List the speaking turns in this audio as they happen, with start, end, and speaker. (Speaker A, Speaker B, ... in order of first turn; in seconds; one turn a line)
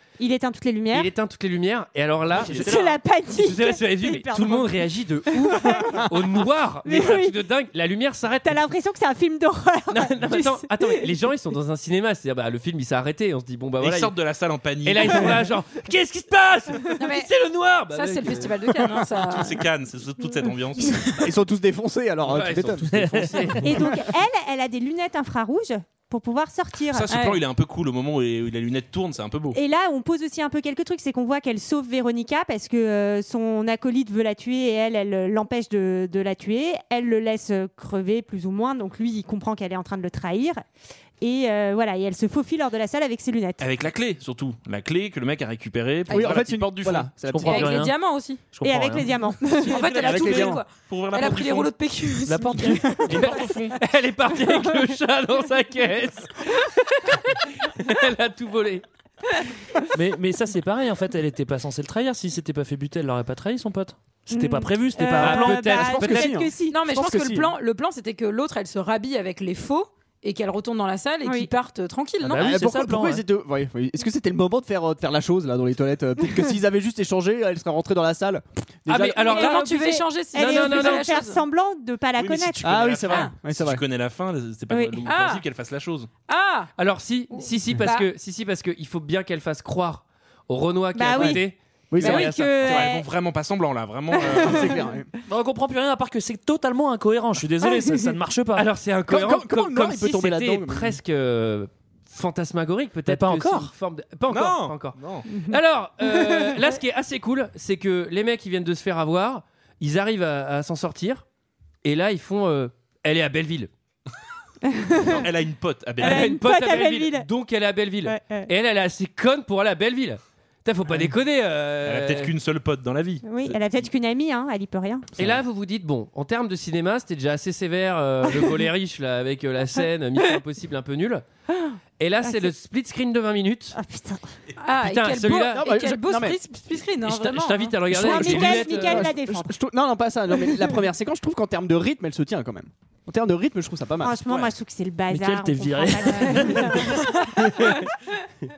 Speaker A: 0.2-1.1
Speaker B: 0.9-2.7
Speaker C: 2.3-3.0
Speaker A: 2.5-4.8
Speaker B: 3.4-8.6
Speaker A: 5.3-6.0
Speaker A: 6.8-7.3
Speaker A: 8.4-11.1
Speaker B: 9.9-14.1
Speaker D: 13.8-15.4
Speaker B: 14.8-18.6
Speaker E: 17.0-17.3
Speaker E: 17.9-19.6
Speaker D: 19.2-21.3
Speaker F: 21.2-23.1
Speaker B: 22.3-23.7
Speaker C: 22.9-23.6
Speaker A: 23.6-27.1
Speaker D: 26.9-29.6
Speaker E: 27.1-27.4
Speaker A: 29.5-40.6
Speaker A: 41.2-43.7
Speaker D: 43.6-47.1
Speaker F: 46.1-47.7
Speaker E: 46.1-46.4
Speaker C: 47.1-48.0
Speaker E: 47.4-48.5
Speaker C: 48.5-49.3
Speaker A: 48.6-49.7
Speaker E: 49.4-53.5
Speaker D: 49.6-51.7
Speaker F: 49.9-50.6
Speaker B: 52.4-53.2
Speaker D: 53.0-53.8
Speaker B: 53.8-58.8
Speaker C: 59.9-65.9
Speaker A: 64.3-66.7
Speaker B: 65.2-66.4
Speaker F: 65.7-67.5
Speaker E: 66.7-72.5
Speaker A: 71.2-71.5
Speaker C: 72.2-73.2
Speaker F: 72.3-79.3
Speaker B: 78.9-81.0
Speaker E: 79.2-81.4
Speaker A: 80.3-82.8
Speaker D: 82.2-86.1
Speaker F: 82.6-83.8
Speaker A: 84.7-85.0
Speaker E: 85.0-85.4
Speaker E: 86.3-86.7
Speaker B: 86.8-92.8
Speaker E: 87.3-88.1
Speaker A: 90.9-91.5
Speaker F: 91.9-92.3
Speaker A: 92.0-93.1
Speaker D: 92.6-94.8
Speaker A: 94.1-94.8
Speaker F: 94.3-95.1
Speaker C: 95.3-98.7
Speaker B: 98.5-111.2
Speaker F: 99.1-101.0
Speaker C: 103.1-103.7
Speaker D: 104.3-105.3
Speaker A: 105.3-105.6
Speaker A: 106.1-106.6
Speaker B: 111.8-113.7
Speaker A: 114.7-115.2
Speaker D: 115.0-116.4
Speaker B: 116.0-122.3
Speaker A: 116.0-117.3
Speaker A: 118.0-118.5
Speaker D: 121.8-123.8
Speaker A: 123.2-125.1
Speaker B: 125.2-131.2
Speaker A: 131.5-132.5
Speaker B: 132.0-133.8
Speaker A: 133.8-134.2
Speaker E: 134.6-137.8
Speaker B: 134.8-135.7
Speaker F: 135.5-136.4
Speaker B: 137.1-139.1
Speaker F: 137.9-144.2
Speaker A: 137.9-139.5
Speaker A: 144.0-147.7
Speaker C: 145.1-147.0